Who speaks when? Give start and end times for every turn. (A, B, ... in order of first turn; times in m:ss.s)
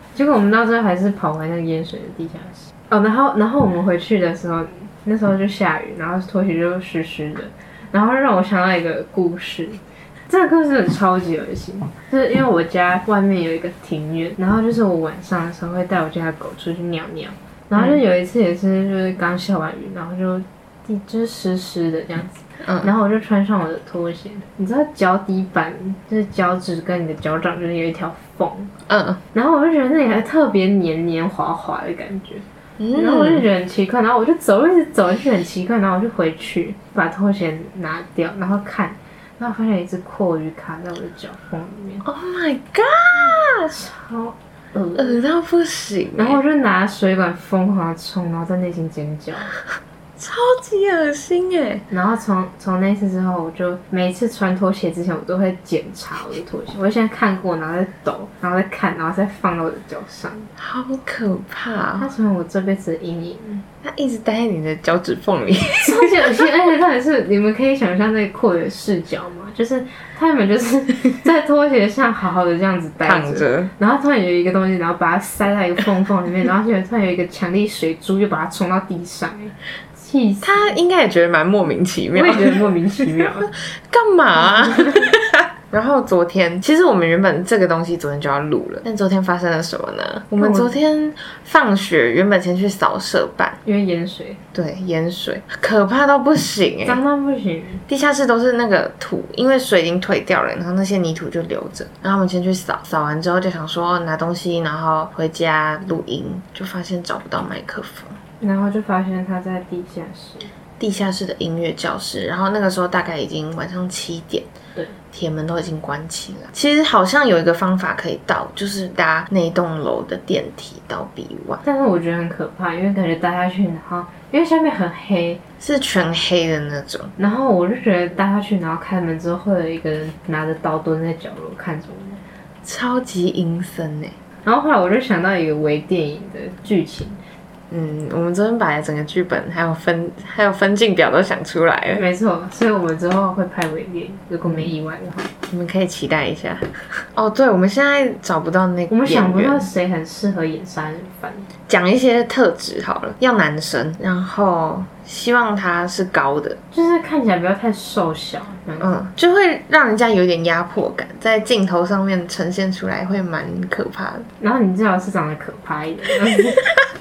0:00.1-0:28.7 A
0:22.6-0:22.9 B
0:28.9-0:29.2 B
0:29.3-0:42.0 A
0:32.8-0:33.5 B
0:42.0-0:43.7 B
0:43.3-0:45.2 A
0:45.0-0:46.4 B
0:46.2-0:49.5 A
0:50.2-0:51.9 B
0:51.9-1:00.5 A
1:00.6-1:02.1 B
1:02.0-1:03.6 A
1:03.8-1:06.4 B
1:05.8-1:20.8 A
1:13.0-1:13.7 B
1:20.4-1:33.6 B
1:22.1-1:23.5 A
1:24.4-1:25.1 A
1:30.4-1:30.8 A
1:33.6-1:34.4 A
1:34.5-1:37.0 B
1:36.8-1:37.8 A
1:37.9-1:48.2 B
1:48.4-1:50.5 A
1:50.8-1:54.5 B
1:55.1-2:01.6 B
2:01.6-2:05.4 A
2:05.6-2:07.1 B
2:07.2-2:12.2 A
2:12.6-2:14.2 B
2:14.4-2:17.2 A
2:17.7-2:22.0 B
2:22.0-2:25.3 A
2:24.4-2:24.7 B
2:25.5-2:29.7 B
2:28.9-2:31.5 A
2:31.7-2:36.6 B
2:36.7-2:39.0 A
2:38.8-2:44.3 B
2:44.4-2:46.6 A